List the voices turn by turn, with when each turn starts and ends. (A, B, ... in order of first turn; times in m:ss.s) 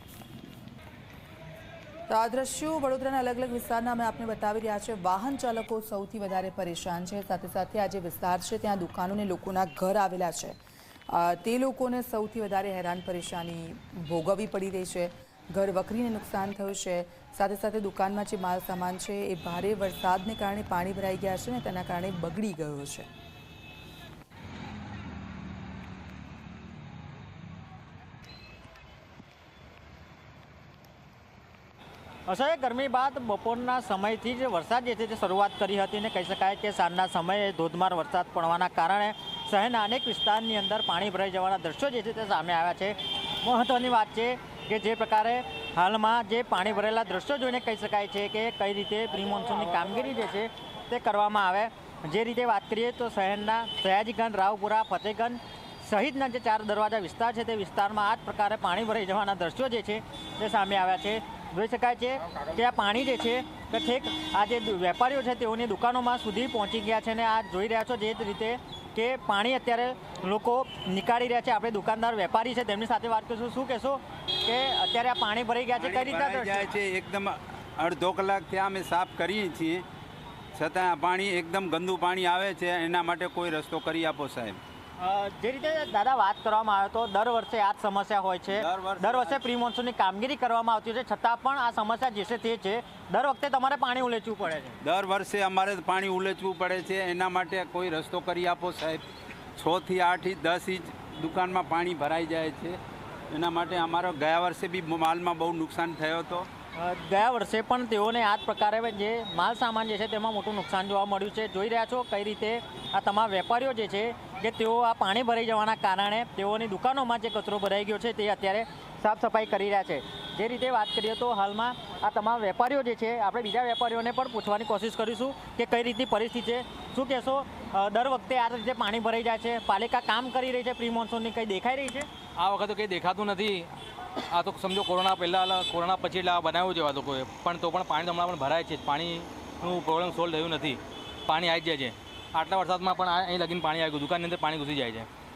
0:02.1-0:10.6 A
0:11.1-0:23.1 A
0:32.3-1:16.6 B
1:15.8-1:19.8 C
1:20.6-1:24.6 C
1:25.0-1:34.8 B
1:28.5-1:29.4 C
1:34.8-1:39.0 C
1:39.6-1:42.8 C
1:43.3-1:46.5 C
1:46.8-2:12.1 B
2:12.4-2:13.8 D
2:14.3-2:25.1 D